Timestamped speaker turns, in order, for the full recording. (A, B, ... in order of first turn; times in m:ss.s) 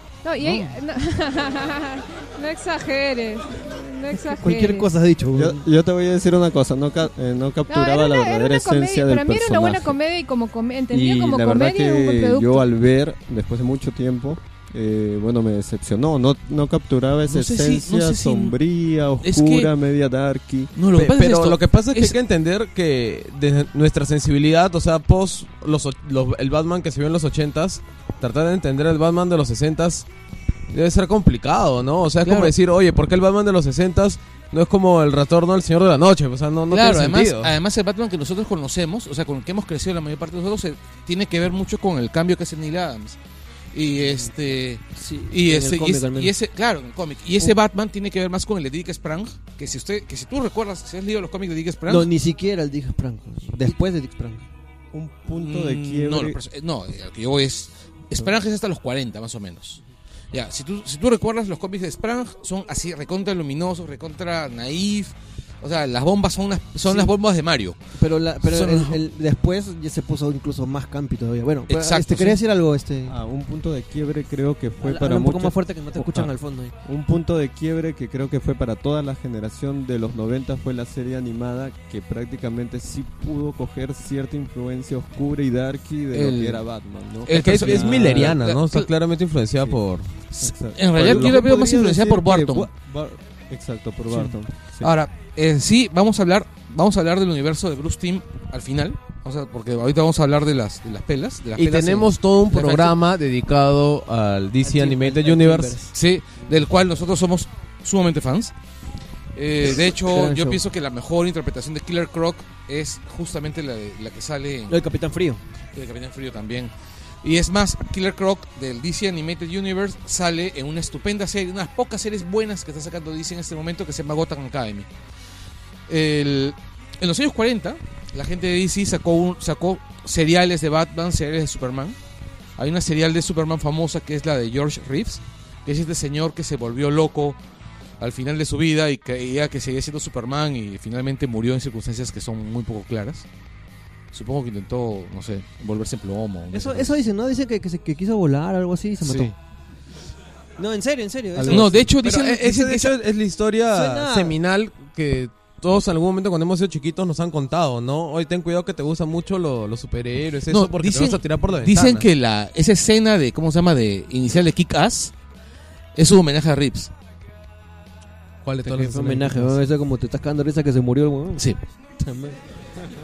0:00.2-0:04.9 A
0:04.4-0:05.6 B
0:05.4-0:10.0 C
0:07.7-0:12.7 A
0:10.9-0:20.7 C
0:17.3-0:18.6 D
0:19.2-0:19.7 D
0:20.8-0:22.2 D
0:21.0-0:30.1 E
0:30.7-0:37.5 E
0:32.2-0:32.5 D
0:36.7-0:43.2 D
0:43.7-0:52.1 D
0:45.0-0:46.3 B
0:51.9-0:54.5 B
0:54.9-0:56.4 C
0:55.3-0:59.8 D
1:00.3-1:07.8 D
1:08.0-1:13.2 B
1:08.4-1:09.0 D
1:11.7-1:12.4 D
1:13.1-1:16.3 C
1:14.8-1:16.7 B
1:16.8-1:28.4 C
1:26.1-1:26.6 D
1:27.3-1:28.9 D
1:27.3-1:30.1 E
1:30.4-1:32.7 D
1:30.4-1:34.9 C
1:34.1-1:43.0 D
1:41.6-1:45.8 E
1:44.6-1:45.9 B
1:45.9-1:48.5 D
1:49.4-1:54.8 D
1:49.6-1:50.6 B
1:54.7-1:55.4 B
1:55.8-1:56.7 D
1:57.2-2:04.9 D
2:05.9-2:12.0 D
2:12.6-2:17.4 D
2:18.0-2:23.3 D
2:24.1-2:27.0 D
2:26.5-2:29.3 B
2:29.0-2:29.4 D
2:30.6-2:31.9 B
2:31.4-2:31.9 C
2:31.5-2:32.9 D
2:32.0-2:42.1 E
2:33.7-2:34.4 B
2:40.5-2:45.1 D
2:46.0-2:46.9 D
2:48.4-2:49.6 E
2:48.7-2:51.5 B
2:52.0-2:52.4 B